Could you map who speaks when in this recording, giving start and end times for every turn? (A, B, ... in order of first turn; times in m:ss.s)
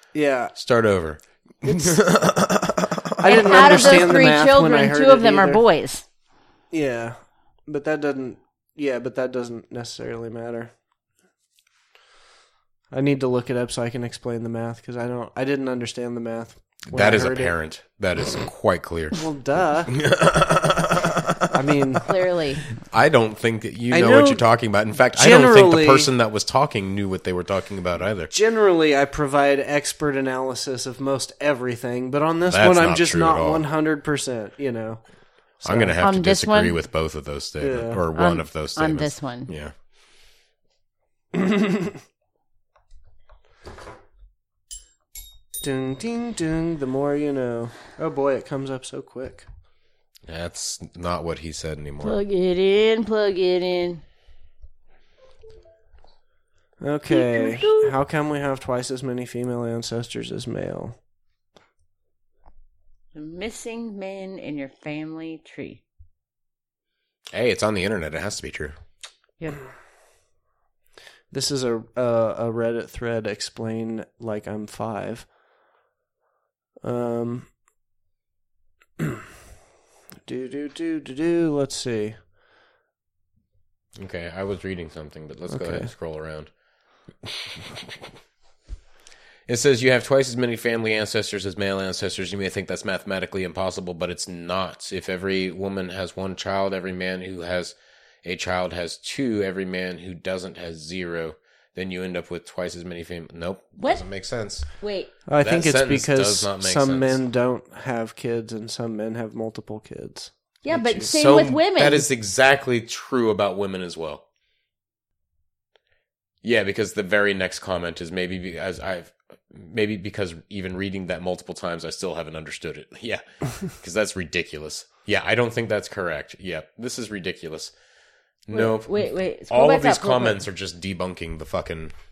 0:00.1-0:00.5 A
0:00.6-0:04.1 B
0:03.2-0:05.6 A
0:03.2-0:06.0 C
0:06.7-0:10.7 A
0:12.9-0:17.5 A
0:16.9-0:19.2 B
0:19.1-0:19.9 A
0:19.9-0:21.6 B
0:21.5-0:22.0 A
0:22.0-0:22.6 C
0:22.8-0:28.3 B
0:23.9-0:24.4 A
0:25.1-0:26.1 A
0:28.3-0:35.0 A
0:32.5-0:33.6 B
0:35.6-0:36.0 A
0:35.6-0:39.7 B
0:36.0-0:36.8 C
0:37.6-0:38.0 A
0:38.1-0:39.5 C
0:41.3-0:42.0 A
0:45.6-0:49.4 A
0:50.3-0:52.2 B
0:52.0-0:54.0 C
0:56.8-1:01.0 A
0:57.1-0:57.9 C
1:03.1-1:05.8 C
1:07.3-1:08.8 B
1:11.3-1:15.3 A
1:16.8-1:17.5 A
1:20.2-1:22.2 A
1:24.0-1:26.5 B
1:25.5-1:25.9 A
1:29.5-1:44.6 B
1:43.8-1:44.0 C
1:44.8-1:45.1 C
1:45.3-1:51.1 A
1:45.4-1:47.2 B
1:50.6-1:52.0 C
1:51.0-1:54.2 B
1:56.4-2:07.7 B
2:08.4-2:11.9 B
2:08.5-2:10.4 C